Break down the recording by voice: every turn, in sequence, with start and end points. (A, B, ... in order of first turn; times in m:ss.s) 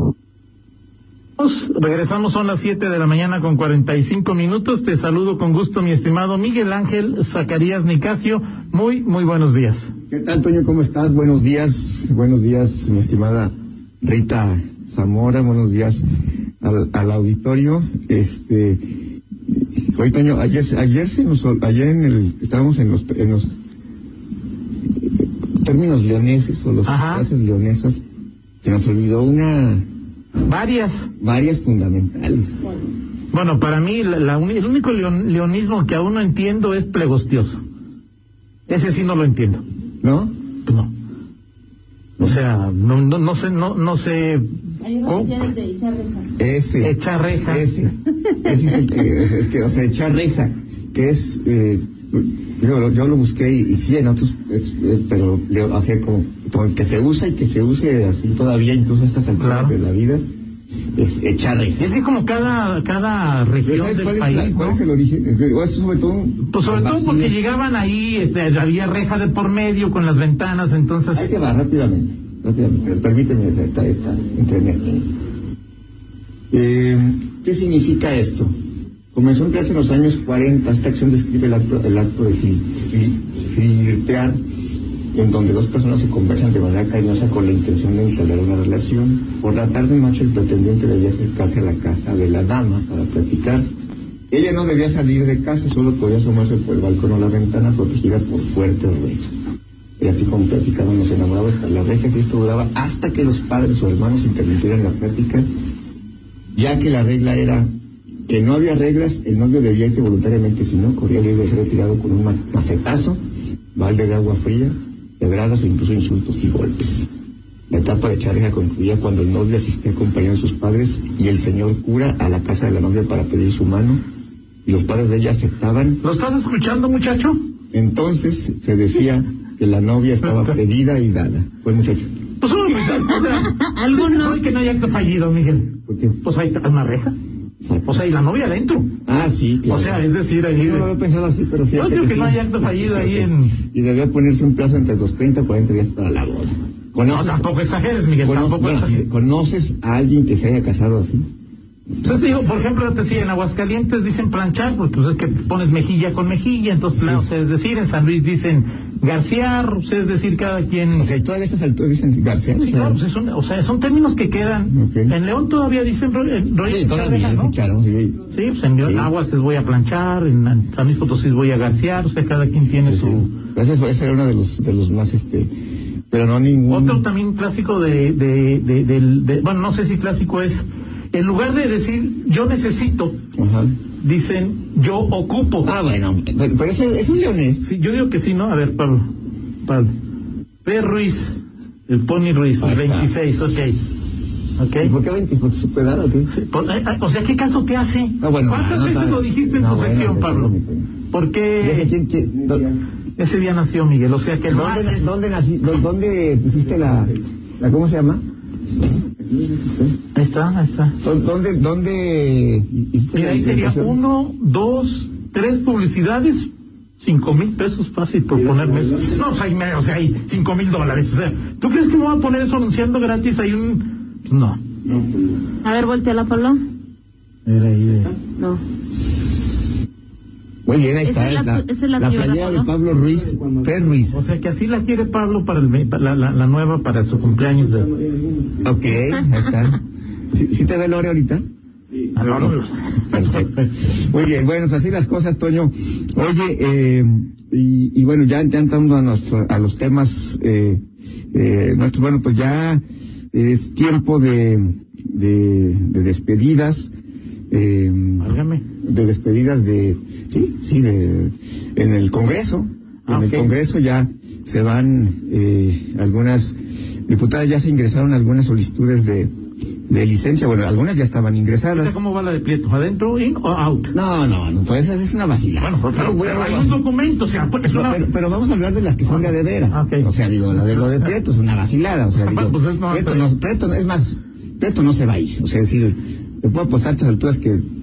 0:01.4-0:09.9 A
0:10.1-0:16.0 B
0:16.6-0:18.8 B
0:19.8-0:23.5 B
0:25.0-0:28.0 B
0:26.9-0:27.3 A
0:28.6-0:29.8 B
0:30.4-0:31.1 A
0:31.2-0:32.6 B
0:33.3-0:37.6 A
0:38.7-0:39.6 A
0:40.0-0:40.3 B
0:40.7-0:40.9 A
0:42.2-0:45.6 A
0:45.4-0:46.3 C
0:46.4-1:00.2 B
0:46.8-0:47.7 A
0:59.4-0:59.8 A
1:01.0-1:02.0 B
1:01.8-1:04.8 A
1:03.6-1:07.4 B
1:06.5-1:11.3 A
1:11.1-1:15.1 B
1:16.5-1:18.5 B
1:19.1-1:24.4 B
1:25.1-1:33.6 B
1:34.3-1:39.3 B
1:40.0-1:45.5 B
1:46.6-1:47.7 B
1:48.3-1:53.2 B
1:53.8-1:57.1 B
1:57.7-2:04.0 B
2:04.7-2:06.0 B
2:06.0-2:07.4 A
2:07.7-2:12.1 B
2:12.4-2:17.1 A
2:13.5-2:14.4 C
2:15.9-2:16.2 B
2:17.6-2:18.0 B
2:17.9-2:19.0 A
2:19.0-2:27.5 B
2:19.7-2:20.9 A
2:21.7-2:23.6 A
2:27.0-2:29.0 A
2:28.2-2:31.3 B
2:32.0-2:41.1 A
2:37.0-2:37.2 B
2:40.9-2:43.0 B
2:42.6-2:47.6 A
2:44.7-2:45.2 B
2:46.6-2:48.2 B
2:48.3-2:53.3 A
2:48.8-2:49.1 B
2:52.8-2:55.5 B
2:56.1-2:57.0 B
2:56.7-3:03.2 A
3:03.4-3:03.7 B
3:04.0-3:05.7 A
3:05.6-3:07.7 B
3:07.6-3:09.1 A
3:09.6-3:09.9 A
3:10.6-3:13.9 A
3:12.6-3:13.1 B
3:14.6-3:14.9 A
3:14.8-3:16.3 B
3:16.3-3:20.5 A
3:18.2-3:20.9 B
3:21.1-3:21.9 A
3:21.6-3:22.8 B
3:23.2-3:25.1 A
3:24.5-3:28.2 B
3:28.8-3:30.0 B
3:30.2-3:31.0 A
3:31.0-3:34.0 B
3:33.1-3:44.6 A
3:45.6-3:46.6 C
3:47.5-3:48.2 A
3:48.4-3:48.6 C
3:50.7-3:54.2 B
3:51.0-3:52.7 C
3:54.1-3:58.0 A
3:58.6-3:59.8 B
4:00.3-4:01.4 B
4:02.1-4:03.8 A
4:03.1-4:10.8 B
4:11.3-4:16.9 B
4:17.5-4:26.6 B
4:18.2-4:18.6 A
4:23.1-4:23.5 A
4:27.1-4:29.3 B
4:29.9-4:32.0 B
4:31.7-4:33.9 A
4:33.9-4:36.8 B
4:35.6-4:38.0 A
4:37.6-4:47.6 B
4:39.1-4:40.1 A
4:40.7-4:41.1 A
4:42.2-4:43.3 A